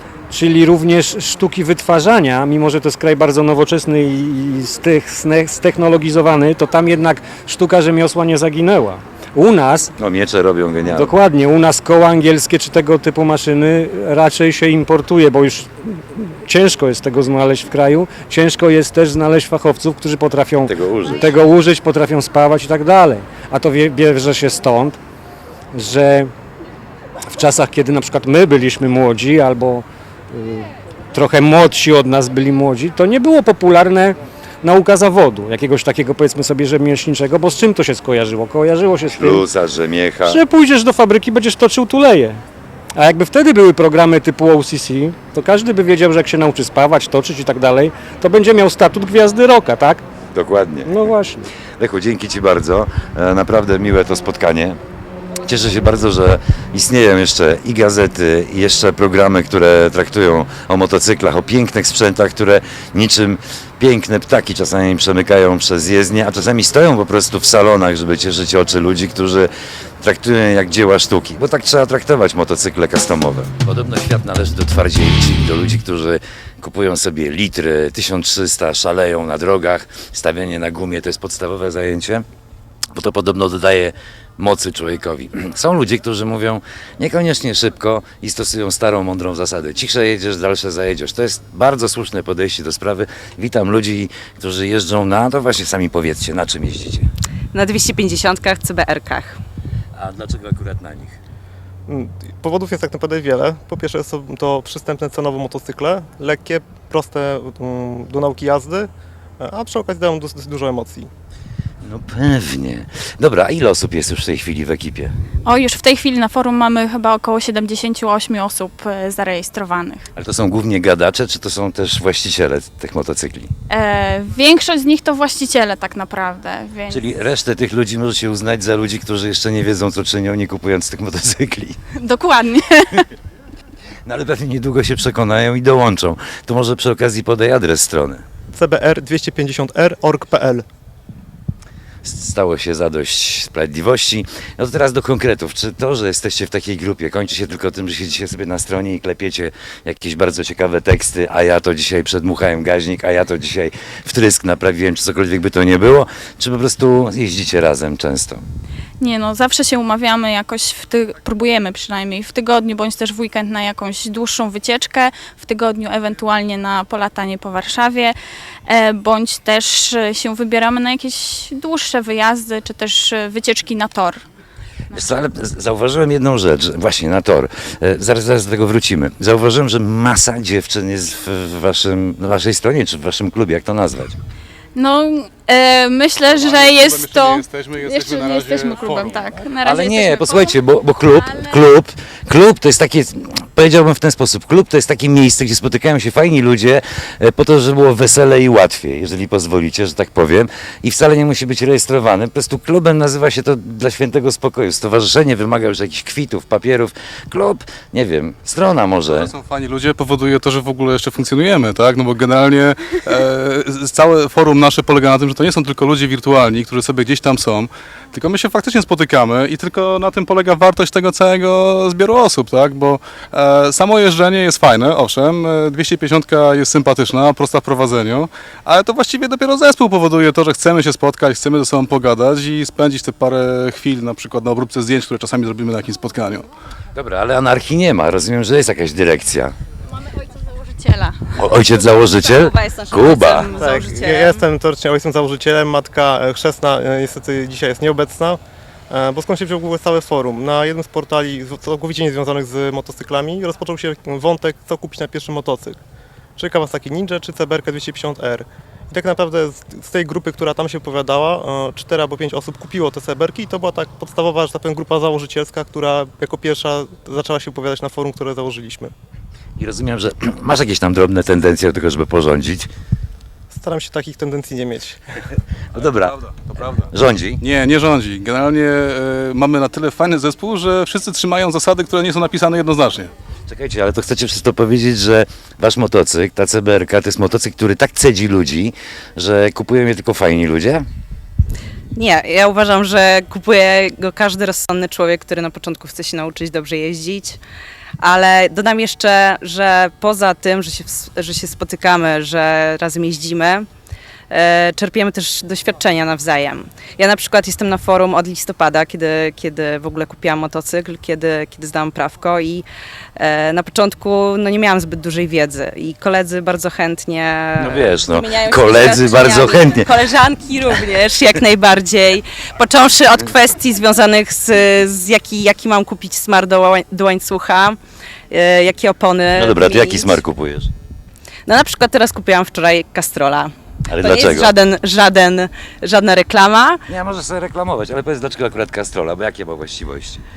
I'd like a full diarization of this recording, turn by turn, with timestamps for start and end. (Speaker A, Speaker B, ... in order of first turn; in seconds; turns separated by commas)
Speaker A: 0.3-9.9, Speaker B: 10.0-11.2, Speaker A: 10.9-25.0, Speaker B: 20.7-21.3, Speaker A: 25.7-26.3, Speaker A: 27.3-39.4, Speaker B: 39.1-40.4, Speaker A: 40.2-42.4, Speaker A: 43.0-50.0, Speaker B: 50.3-51.1, Speaker A: 50.9-51.5, Speaker B: 51.8-54.8, Speaker B: 55.5-82.3, Speaker B: 82.9-97.1, Speaker C: 97.5-99.4, Speaker B: 100.0-101.2, Speaker D: 101.9-111.1, Speaker B: 111.8-115.1, Speaker E: 115.5-120.1, Speaker B: 120.2-123.5, Speaker E: 123.7-127.0, Speaker B: 126.9-131.8, Speaker E: 132.0-133.1, Speaker B: 134.1-138.2, Speaker D: 138.6-140.7, Speaker B: 142.0-158.4, Speaker E: 159.0-174.2, Speaker B: 174.9-184.2, Speaker E: 184.8-190.6, Speaker F: 186.3-189.4, Speaker B: 189.6-209.3, Speaker E: 191.2-191.6, Speaker F: 209.1-236.4, Speaker B: 236.9-239.6, Speaker E: 240.0-241.4, Speaker B: 241.3-243.6, Speaker C: 242.2-244.4, Speaker D: 243.6-255.8, Speaker D: 256.4-268.9, Speaker B: 269.6-272.7, Speaker D: 273.5-275.0, Speaker B: 275.7-277.4, Speaker F: 276.3-276.8, Speaker F: 277.4-283.1, Speaker B: 283.5-290.9, Speaker C: 291.9-297.4, Speaker C: 298.0-303.7, Speaker C: 304.3-312.6, Speaker C: 313.2-327.8, Speaker B: 317.6-320.0, Speaker C: 328.3-330.2, Speaker B: 329.4-330.7, Speaker C: 331.5-336.8, Speaker B: 333.9-334.5, Speaker B: 336.9-340.2